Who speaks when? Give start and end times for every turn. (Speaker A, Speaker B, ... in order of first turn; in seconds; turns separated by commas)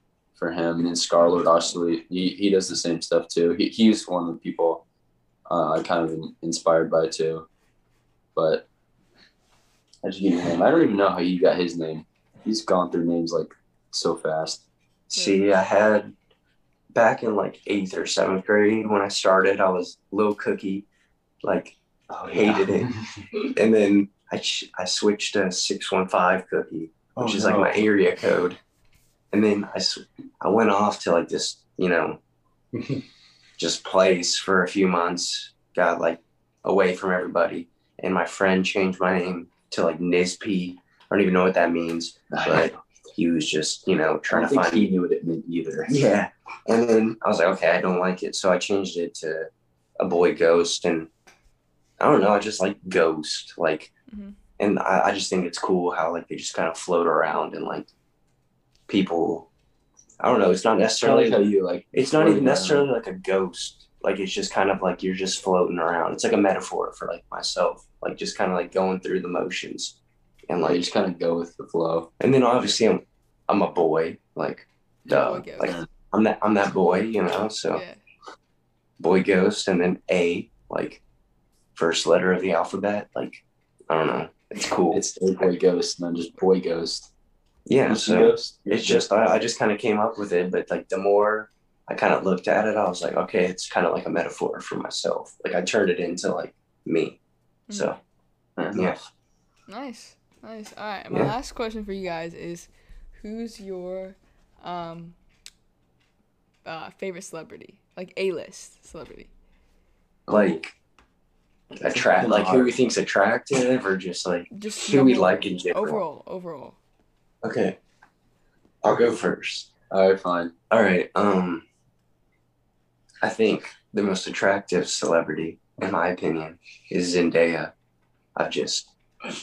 Speaker A: 0.4-4.8, Speaker A: 5.5-7.5, Speaker A: 8.3-8.7, Speaker A: 10.0-14.7, Speaker B: 15.1-16.1, Speaker C: 15.1-15.5, Speaker B: 16.9-20.9, Speaker B: 21.4-21.8, Speaker A: 22.1-23.3, Speaker B: 22.3-22.9, Speaker B: 23.5-28.6, Speaker A: 27.2-27.9, Speaker B: 29.3-32.2, Speaker B: 33.6-44.9, Speaker A: 42.3-42.7, Speaker A: 44.3-46.0, Speaker B: 45.9-51.1, Speaker B: 52.0-53.9, Speaker C: 54.1-54.4, Speaker B: 54.6-57.9, Speaker B: 58.9-59.5, Speaker B: 60.2-61.4, Speaker A: 61.0-62.9, Speaker B: 61.9-70.8, Speaker A: 70.6-72.1, Speaker B: 72.2-77.8, Speaker C: 75.1-75.8, Speaker C: 77.7-78.0, Speaker B: 79.0-81.0, Speaker B: 81.8-85.0, Speaker A: 84.9-87.1, Speaker B: 87.7-97.2, Speaker A: 87.8-89.0, Speaker C: 97.7-98.0, Speaker A: 98.6-99.0, Speaker B: 98.7-99.0, Speaker C: 99.7-105.2, Speaker B: 101.1-101.3, Speaker C: 106.7-109.3, Speaker A: 110.3-110.6, Speaker B: 110.3-110.7, Speaker B: 111.8-116.0, Speaker A: 111.8-112.8, Speaker C: 114.5-116.8, Speaker B: 117.4-117.8, Speaker B: 118.8-119.7, Speaker A: 119.9-120.5, Speaker B: 120.7-121.7, Speaker B: 123.2-127.7, Speaker B: 128.4-128.9